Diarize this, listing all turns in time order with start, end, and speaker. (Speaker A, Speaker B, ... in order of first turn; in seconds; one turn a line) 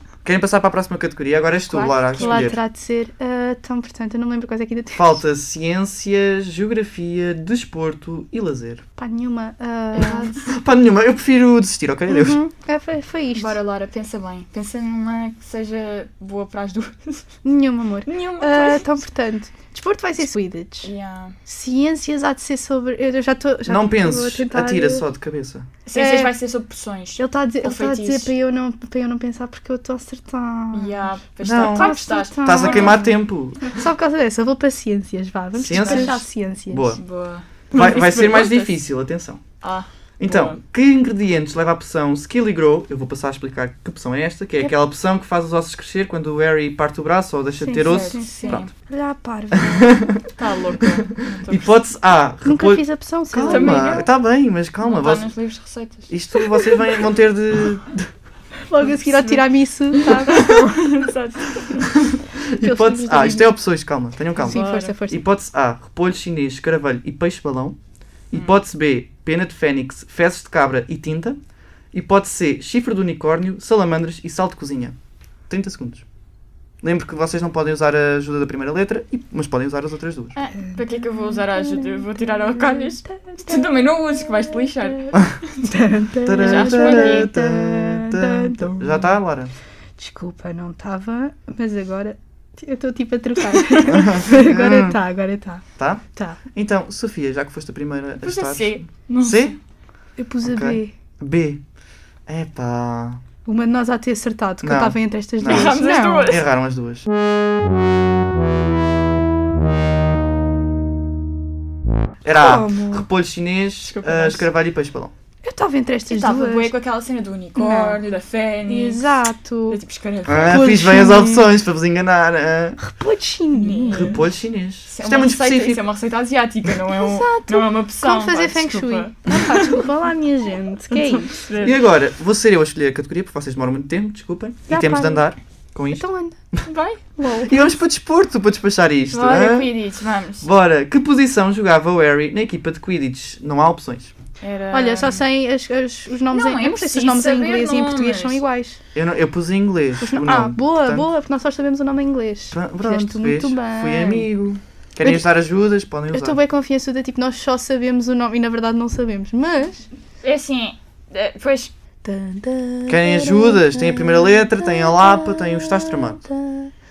Speaker A: 0.2-2.6
Speaker B: 1.7-2.5
Speaker C: 2.2-5.2
Speaker A: 5.0-8.8
Speaker C: 9.0-10.3
Speaker B: 9.9-10.4
Speaker A: 10.5-12.4
Speaker C: 12.1-13.6
Speaker B: 13.3-17.2
Speaker C: 17.4-20.9
Speaker B: 18.0-18.9
Speaker B: 20.8-21.3
Speaker C: 21.4-25.1
Speaker A: 23.6-25.7
Speaker B: 25.9-28.3
Speaker C: 25.9-26.3
Speaker C: 27.2-33.0
Speaker B: 30.7-33.1
Speaker A: 31.4-33.7
Speaker C: 33.7-36.9
Speaker A: 35.6-37.0
Speaker B: 35.7-36.2
Speaker B: 36.9-38.8
Speaker A: 37.7-39.4
Speaker B: 39.6-40.6
Speaker A: 40.2-48.7
Speaker C: 47.6-50.1
Speaker B: 47.8-48.7
Speaker A: 49.5-50.2
Speaker B: 50.4-51.7
Speaker A: 51.5-55.3
Speaker C: 52.4-54.0
Speaker B: 53.5-54.1
Speaker B: 54.8-56.5
Speaker A: 56.1-58.1
Speaker C: 58.7-60.6
Speaker B: 58.8-59.4
Speaker B: 60.0-61.9
Speaker A: 62.1-67.8
Speaker C: 62.6-63.5
Speaker C: 64.4-65.2
Speaker B: 64.4-64.9
Speaker A: 68.3-71.4
Speaker A: 71.9-74.9
Speaker A: 75.5-76.0
Speaker A: 76.8-80.3
Speaker B: 80.3-85.7
Speaker C: 80.6-85.0
Speaker C: 85.7-89.1
Speaker A: 86.2-89.5
Speaker B: 86.4-87.3
Speaker C: 90.0-96.4
Speaker A: 93.9-95.0
Speaker A: 95.8-99.5
Speaker B: 98.2-99.6
Speaker C: 100.2-100.9
Speaker A: 100.4-101.6
Speaker A: 102.3-103.2
Speaker C: 103.5-106.4
Speaker A: 104.6-107.1
Speaker B: 105.5-106.4
Speaker A: 112.2-115.1
Speaker C: 112.4-113.1
Speaker B: 113.8-114.5
Speaker C: 115.4-116.7
Speaker B: 116.1-119.1
Speaker C: 117.5-118.0
Speaker C: 118.7-119.8
Speaker B: 119.7-120.7
Speaker A: 120.3-122.8
Speaker C: 120.4-121.5
Speaker C: 122.8-124.2
Speaker B: 123.5-124.2
Speaker A: 123.9-125.8
Speaker B: 124.9-129.8
Speaker C: 126.9-131.4
Speaker B: 130.9-131.8
Speaker A: 131.6-136.6
Speaker C: 134.7-135.3
Speaker C: 135.9-136.3
Speaker B: 136.7-137.0
Speaker C: 137.2-137.6
Speaker A: 137.4-139.7
Speaker B: 139.1-140.4
Speaker A: 140.4-144.1
Speaker B: 144.4-145.2
Speaker C: 144.7-148.8
Speaker B: 146.3-148.4
Speaker A: 148.9-151.1
Speaker C: 150.0-154.3
Speaker A: 152.5-156.4
Speaker C: 156.1-159.9
Speaker B: 160.2-161.7
Speaker C: 162.0-166.7
Speaker A: 162.9-166.2